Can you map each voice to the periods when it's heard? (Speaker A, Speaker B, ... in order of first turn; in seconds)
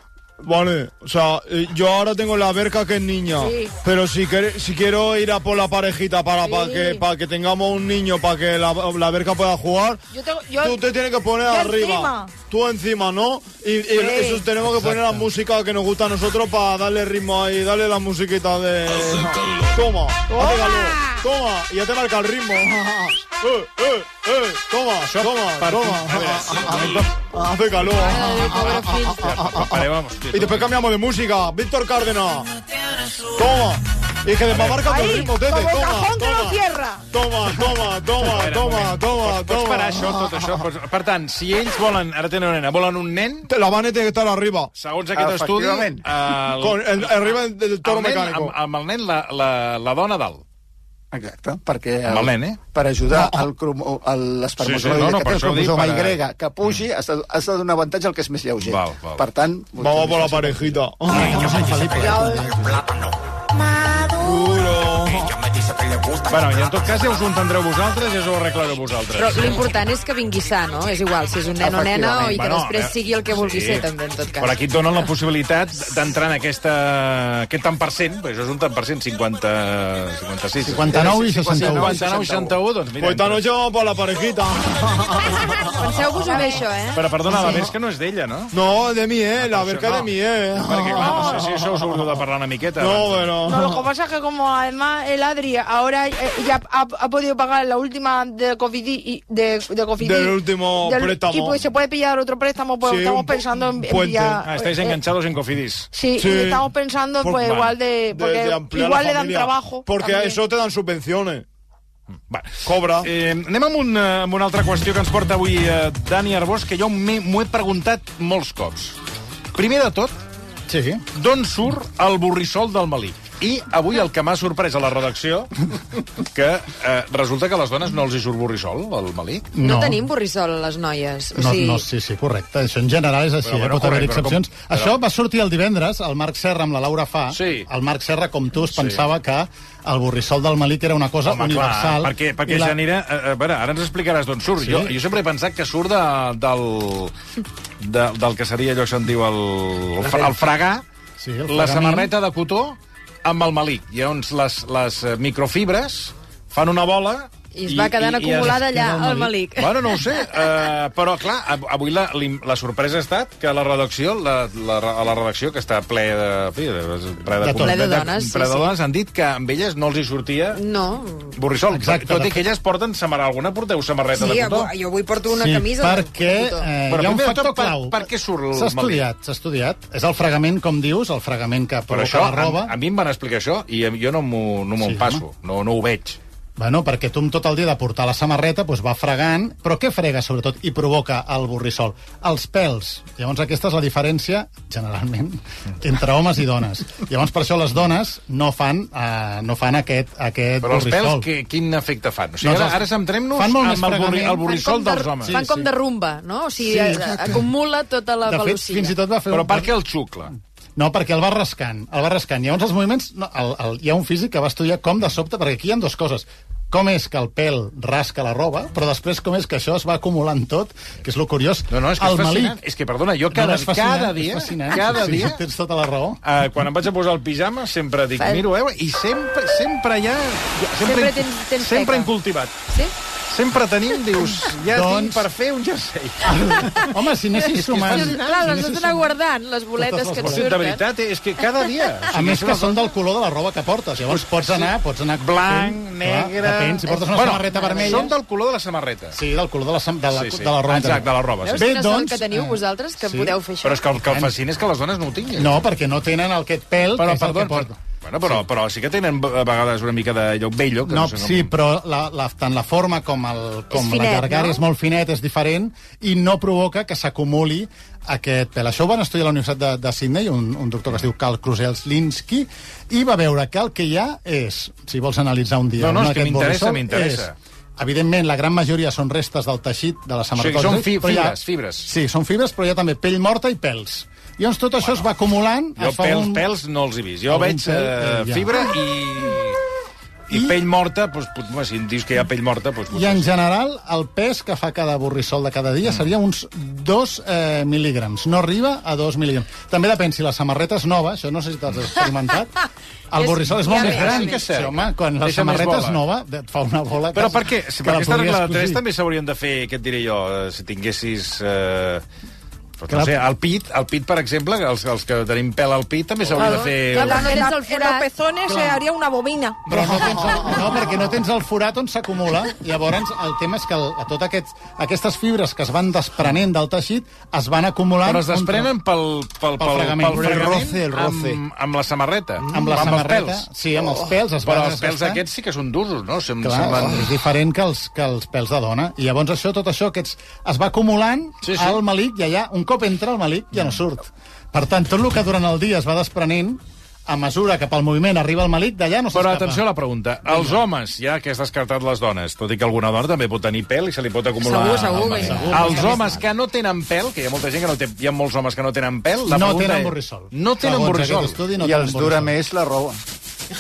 Speaker A: 0.4-10.0, 10.6-32.5, 33.2-36.6, 37.1-40.6, 43.5-44.7, 46.6-48.5, 53.1-53.4, 59.8-61.7, 64.2-65.5, 83.0-85.8, 87.4-87.7, 88.5-92.0, 92.8-93.8, 100.0-101.6, 102.8-104.5, 106.2-106.7, 107.2-107.6, 108.1-111.5, 112.6-113.1
Speaker B: 3.4-3.8, 6.4-7.0, 10.1-10.8, 11.4-12.3, 13.9-14.5, 20.3-21.2, 34.7-37.0, 62.0-62.7, 63.7-64.5, 86.2-86.6, 91.0-91.4, 93.5-105.0, 105.9-110.4, 263.8-264.5, 316.4-319.6
Speaker C: 14.6-15.3, 61.1-62.8, 80.7-82.1, 120.7-121.0, 129.5-130.1, 131.3-142.8, 144.6-144.9, 150.0-150.4, 151.2-152.1, 158.4-159.3, 167.4-167.8, 171.7-172.5, 175.3-182.8, 184.8-185.2, 186.6-201.3, 202.4-204.5, 205.2-205.7, 206.6-207.4, 208.3-209.7, 210.8-222.6, 223.3-226.2, 234.6-235.3, 236.3-239.1, 239.8-240.5, 242.1-248.1, 249.1-253.4, 254.0-254.3, 255.3-258.4, 260.9-286.5, 287.3-288.6, 290.3-290.6, 292.9-308.8, 312.9-313.2, 319.7-328.8, 329.6-330.8, 332.5-335.2, 336.4-349.6, 350.3-350.6, 354.7-356.2, 359.3-362.4
Speaker D: 25.1-27.1, 29.1-30.7, 34.5-34.8, 38.2-43.5, 44.8-50.4, 52.0-52.6, 54.6-56.8, 58.6-59.2, 66.3-69.6, 71.6-73.9, 74.4-83.5, 86.9-88.5, 89.4-93.4, 104.5-105.9, 107.5-107.7, 112.3-119.0, 119.5-120.2, 121.1-125.7, 126.2-129.5, 133.4-134.9, 137.3-137.7, 138.7-139.1, 141.3-147.1, 147.8-150.8, 151.5-158.7, 159.6-170.6, 171.4-174.7, 176.9-179.1, 181.9-186.2, 200.6-205.6, 209.3-210.3, 221.7-225.4, 226.2-232.6, 233.3-236.8, 237.5-238.3, 240.2-242.9, 244.0-249.2, 250.1-251.7, 253.6-255.6, 257.0-261.5, 275.8-277.4, 280.4-281.9, 285.8-289.6, 290.3-293.3, 303.7-306.0, 307.1-312.0, 312.8-317.4, 328.0-333.5, 334.4-337.1, 341.4-341.8, 349.1-361.4
Speaker E: 27.9-29.3, 69.2-74.6, 85.8-87.0, 129.6-131.8, 157.5-160.0, 167.5-168.7, 170.6-171.3, 174.2-176.7, 204.4-208.9, 228.2-228.4, 230.8-232.1, 236.6-240.8, 247.2-248.1, 251.4-253.8, 263.8-264.4, 303.2-304.4, 316.4-318.1, 354.4-356.2
Speaker F: 45.1-46.0, 51.1-60.8, 80.7-82.6, 361.6-363.0